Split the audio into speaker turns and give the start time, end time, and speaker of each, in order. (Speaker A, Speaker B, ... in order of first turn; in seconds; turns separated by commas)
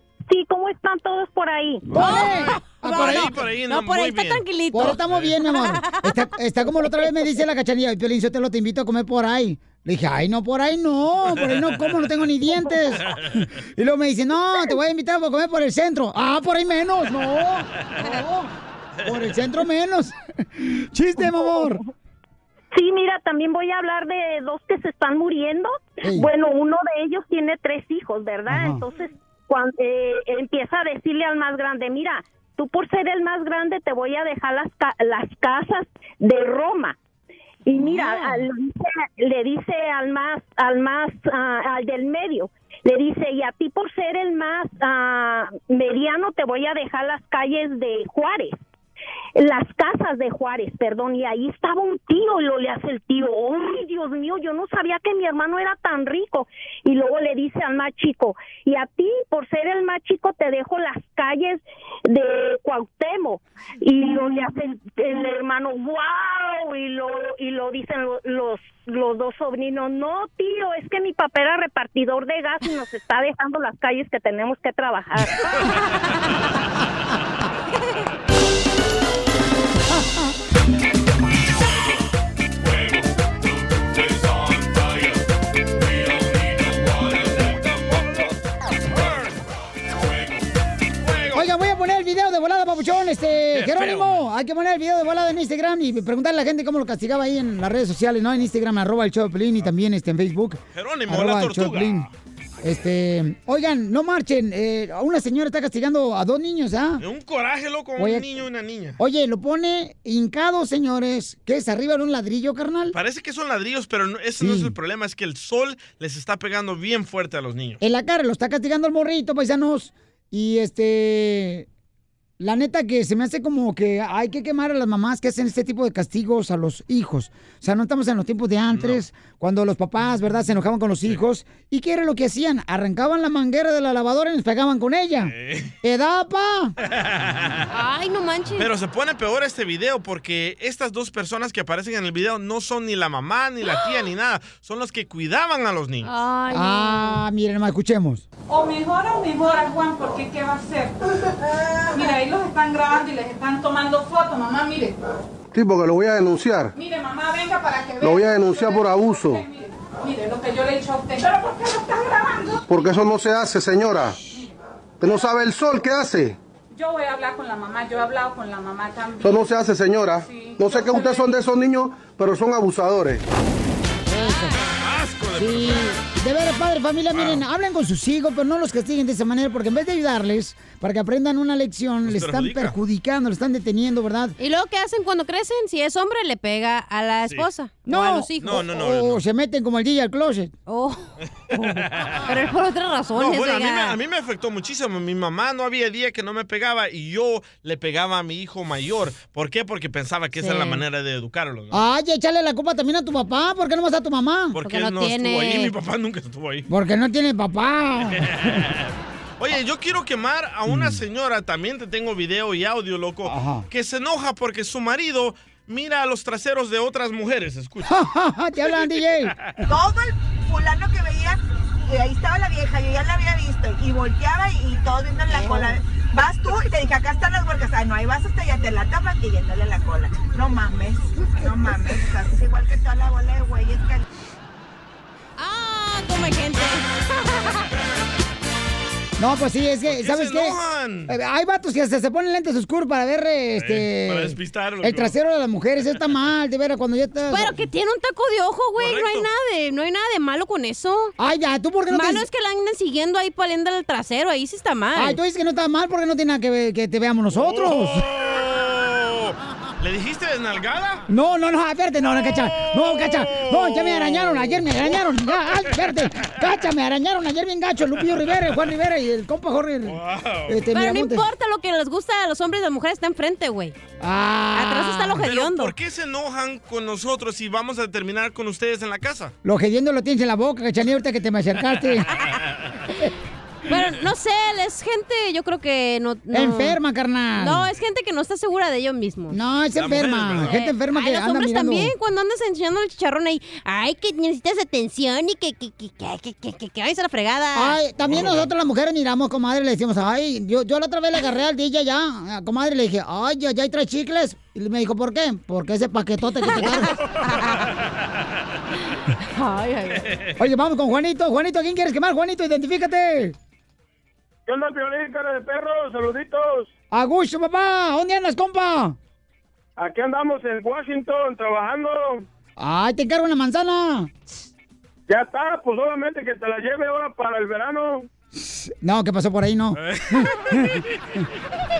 Speaker A: 0.3-1.9, Speaker B: 1.9-3.3, Speaker C: 1.9-6.2, Speaker D: 2.8-5.3, Speaker B: 4.7-18.5, Speaker B: 19.0-21.8, Speaker A: 22.7-37.0, Speaker B: 26.0-26.3, Speaker B: 28.5-28.8, Speaker A: 37.6-48.6, Speaker C: 37.7-38.5, Speaker A: 49.4-75.6, Speaker D: 84.2-84.6, Speaker D: 85.9-88.4, Speaker D: 88.9-89.4, Speaker D: 91.0-91.5, Speaker B: 91.3-102.1, Speaker D: 93.5-94.2, Speaker D: 100.7-102.1, Speaker B: 102.6-107.0, Speaker D: 107.0-109.0, Speaker B: 108.0-108.3, Speaker B: 109.0-113.0, Speaker D: 112.9-117.8, Speaker B: 114.4-114.7, Speaker B: 117.8-121.7, Speaker B: 122.4-136.7, Speaker D: 128.7-129.0, Speaker D: 135.2-135.7, Speaker D: 136.8-137.6, Speaker C: 137.7-138.7, Speaker D: 138.6-146.1, Speaker C: 146.0-147.2, Speaker B: 146.5-148.2, Speaker E: 148.5-151.0, Speaker E: 151.9-155.0, Speaker F: 155.5-156.7, Speaker E: 156.7-161.5, Speaker F: 158.0-159.4, Speaker F: 162.7-164.2, Speaker F: 165.0-166.4, Speaker E: 166.7-169.3, Speaker F: 169.2-173.2, Speaker E: 170.2-171.2, Speaker B: 174.1-174.6, Speaker C: 174.2-174.7, Speaker D: 174.8-175.9, Speaker B: 175.3-184.3, Speaker D: 177.1-177.4, Speaker D: 182.0-182.8, Speaker C: 184.4-188.6, Speaker B: 187.8-190.5, Speaker D: 188.4-189.2, Speaker C: 190.7-191.7, Speaker D: 191.5-192.3, Speaker C: 192.2-194.0, Speaker D: 193.1-201.8, Speaker C: 200.4-200.8, Speaker B: 201.7-204.6, Speaker D: 204.5-206.7, Speaker C: 204.6-205.7, Speaker B: 206.7-208.6, Speaker D: 208.1-218.0, Speaker B: 210.7-211.0, Speaker B: 213.2-213.7, Speaker B: 217.8-219.3, Speaker G: 219.7-234.0, Speaker C: 225.3-225.8, Speaker C: 235.4-237.6, Speaker B: 239.2-240.6, Speaker D: 239.9-241.1, Speaker B: 241.1-247.6, Speaker D: 243.6-245.1, Speaker C: 247.3-251.1, Speaker D: 248.8-249.3, Speaker B: 251.2-252.2, Speaker C: 251.9-255.2, Speaker B: 254.9-258.1, Speaker D: 257.3-261.0, Speaker B: 261.1-271.3, Speaker D: 262.0-264.8, Speaker D: 269.9-270.6, Speaker C: 270.7-273.8, Speaker B: 274.0-275.3, Speaker C: 274.5-275.7, Speaker D: 275.2-279.3, Speaker B: 279.4-282.1, Speaker C: 283.7-286.8, Speaker B: 286.3-287.7, Speaker C: 287.4-289.4, Speaker B: 289.3-291.9, Speaker D: 289.7-290.6, Speaker C: 290.4-297.8, Speaker B: 297.5-307.0, Speaker D: 298.0-298.5, Speaker C: 306.4-306.9, Speaker D: 306.6-307.8, Speaker C: 309.3-310.1, Speaker D: 309.9-310.3, Speaker B: 310.4-313.4, Speaker H: 314.5-316.7, Speaker B: 316.9-319.0, Speaker H: 319.8-322.2, Speaker B: 322.6-324.1, Speaker H: 325.1-328.1, Speaker B: 328.4-330.8, Speaker D: 329.8-330.8